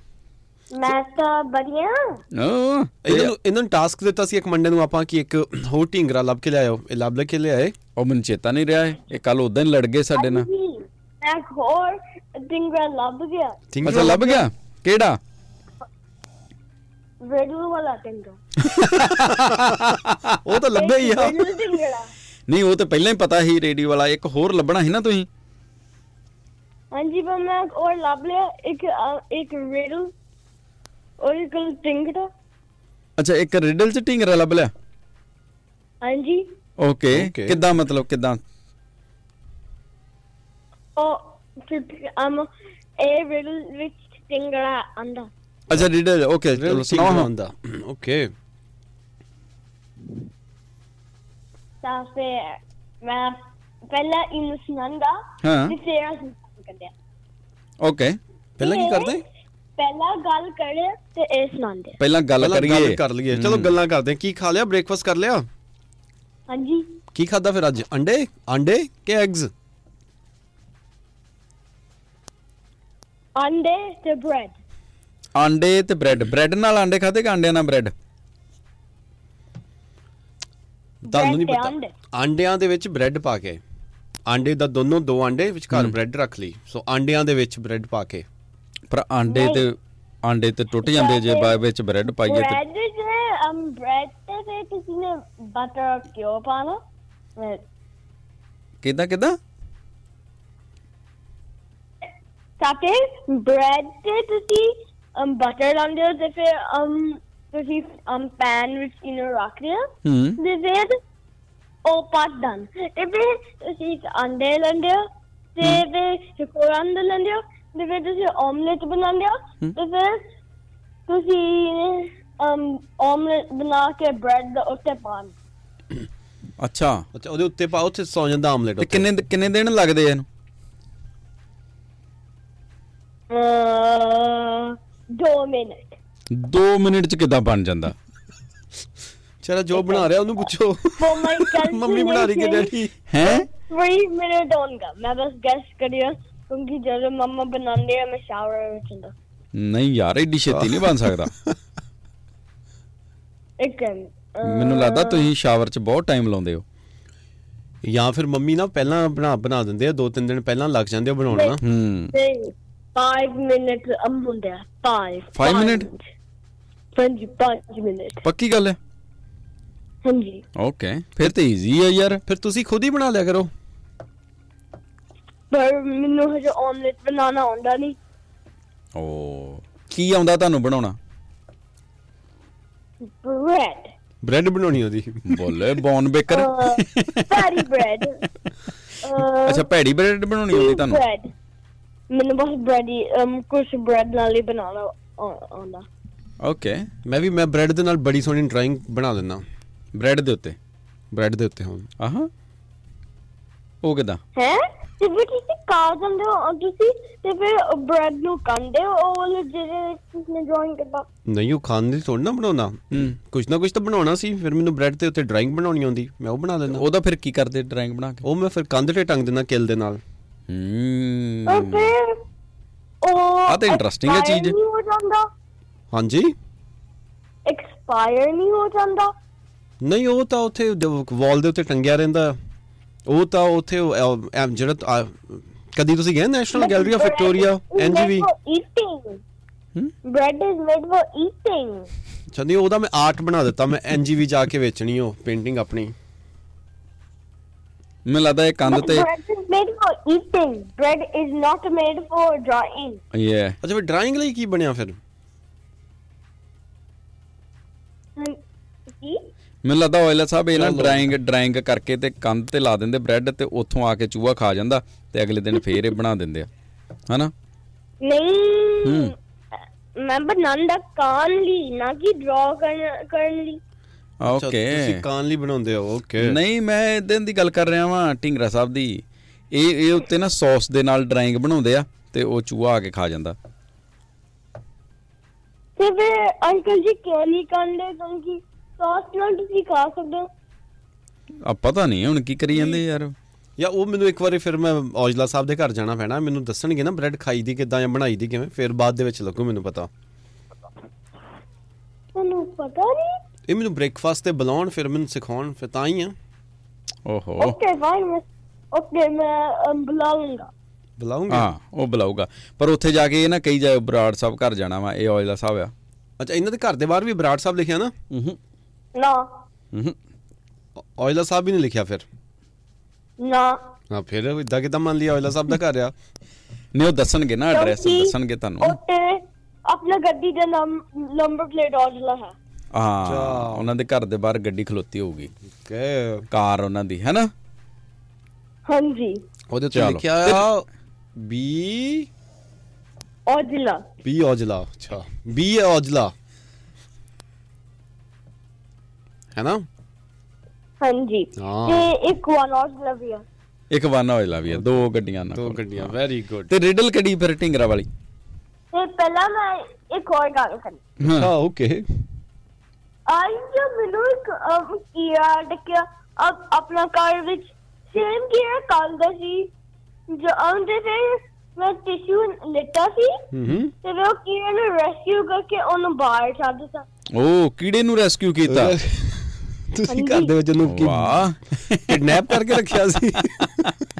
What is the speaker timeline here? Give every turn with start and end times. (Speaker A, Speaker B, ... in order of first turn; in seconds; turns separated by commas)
Speaker A: 0.7-2.0, Speaker B: 2.4-3.3, Speaker C: 3.0-7.7, Speaker B: 8.0-10.5, Speaker A: 10.2-13.6, Speaker C: 13.7-14.5, Speaker B: 13.8-15.2, Speaker A: 17.2-18.4, Speaker B: 18.7-20.4, Speaker C: 18.9-21.5, Speaker A: 20.7-22.1, Speaker B: 22.5-25.3, Speaker A: 26.9-30.1, Speaker A: 31.2-32.3, Speaker B: 33.2-34.7, Speaker A: 36.0-36.5, Speaker B: 36.8-38.4, Speaker C: 37.1-37.6, Speaker A: 41.0-42.5, Speaker A: 43.0-45.3, Speaker B: 45.7-47.3, Speaker C: 46.5-48.3, Speaker A: 51.8-56.9, Speaker B: 55.4-55.7, Speaker B: 57.8-58.2, Speaker C: 58.6-59.2, Speaker A: 58.6-59.2, Speaker A: 59.8-62.0, Speaker B: 62.0-63.8, Speaker C: 62.4-65.5, Speaker A: 66.5-66.9, Speaker C: 67.2-69.5, Speaker A: 73.4-74.5, Speaker B: 75.3-77.9, Speaker A: 81.0-81.9, Speaker C: 81.1-83.6, Speaker C: 84.3-88.2, Speaker B: 85.7-86.0, Speaker B: 88.9-92.6, Speaker A: 89.3-89.7, Speaker A: 90.8-91.6, Speaker A: 92.2-96.8, Speaker A: 97.4-97.6, Speaker B: 98.8-99.4, Speaker A: 102.6-111.0, Speaker B: 110.0-110.4, Speaker A: 111.8-120.3, Speaker A: 121.1-125.3, Speaker B: 126.6-127.0, Speaker C: 127.2-129.1, Speaker B: 128.8-130.3, Speaker A: 133.3-135.9, Speaker B: 136.3-137.9, Speaker C: 139.4-142.9, Speaker A: 139.8-140.1, Speaker A: 141.0-149.1, Speaker B: 143.1-143.4, Speaker B: 149.6-151.3, Speaker C: 150.5-151.5, Speaker A: 153.6-155.3, Speaker B: 154.4-156.6, Speaker C: 157.8-161.6, Speaker A: 161.3-161.6, Speaker B: 161.6-162.1, Speaker A: 162.1-166.1, Speaker B: 165.3-165.9, Speaker A: 167.0-168.3, Speaker B: 168.2-168.8, Speaker A: 170.1-170.4, Speaker B: 170.6-172.2, Speaker C: 172.3-173.5, Speaker A: 175.5-178.0, Speaker B: 179.0-181.0, Speaker A: 183.0-183.9, Speaker C: 184.2-185.2, Speaker B: 185.3-187.5, Speaker A: 186.3-188.2, Speaker A: 189.0-189.7, Speaker B: 189.2-191.0, Speaker A: 190.5-191.3, Speaker A: 192.1-195.8, Speaker B: 196.4-196.9, Speaker C: 197.1-199.4, Speaker B: 199.9-200.6, Speaker C: 201.1-201.9, Speaker B: 202.0-202.3, Speaker B: 203.8-204.2, Speaker A: 204.4-211.1, Speaker C: 211.3-216.8, Speaker B: 216.7-218.3, Speaker C: 218.2-220.0, Speaker B: 220.5-221.9, Speaker A: 221.5-222.2, Speaker A: 223.0-225.3, Speaker B: 223.5-224.6, Speaker C: 225.9-226.3, Speaker A: 227.5-229.1, Speaker C: 229.8-232.4, Speaker C: 233.1-238.3, Speaker A: 236.6-239.2, Speaker A: 240.1-241.9, Speaker C: 242.3-245.9, Speaker B: 248.1-249.1, Speaker A: 248.7-253.0, Speaker B: 253.1-253.6, Speaker C: 253.6-255.0, Speaker A: 258.9-259.2, Speaker B: 259.6-266.5, Speaker C: 260.6-261.1, Speaker A: 268.0-269.1, Speaker B: 268.9-269.1, Speaker A: 270.0-273.6, Speaker B: 274.2-275.0, Speaker C: 274.3-276.4, Speaker B: 276.2-283.4, Speaker A: 285.8-290.3, Speaker B: 291.4-293.1, Speaker C: 293.6-299.9, Speaker A: 302.1-303.2, Speaker C: 303.5-306.1, Speaker B: 307.1-307.6, Speaker A: 307.4-310.5, Speaker C: 311.0-311.5, Speaker B: 311.3-315.7, Speaker C: 316.2-317.9, Speaker B: 318.1-318.4, Speaker A: 318.9-319.3, Speaker C: 321.0-322.0, Speaker A: 323.2-323.6, Speaker C: 323.9-325.9, Speaker B: 326.7-328.8, Speaker A: 327.5-332.3, Speaker B: 332.7-335.3, Speaker C: 333.1-333.7, Speaker C: 335.6-336.2, Speaker B: 336.3-337.3, Speaker A: 338.7-339.2, Speaker C: 339.5-340.6, Speaker B: 339.7-340.5, Speaker C: 341.2-342.1, Speaker A: 343.3-343.9, Speaker C: 344.0-346.1, Speaker C: 349.4-349.6, Speaker A: 350.8-353.2, Speaker C: 351.4-351.9, Speaker B: 353.7-355.9, Speaker C: 355.3-356.5, Speaker B: 356.5-357.9, Speaker A: 358.7-360.8, Speaker B: 361.0-361.3, Speaker C: 361.2-361.9, Speaker A: 363.1-369.5, Speaker A: 370.1-373.2, Speaker C: 373.3-373.7, Speaker A: 373.8-376.9, Speaker B: 377.1-378.8, Speaker C: 378.5-381.2, Speaker A: 379.9-380.3, Speaker B: 380.6-382.5, Speaker C: 381.8-383.7, Speaker B: 383.4-383.7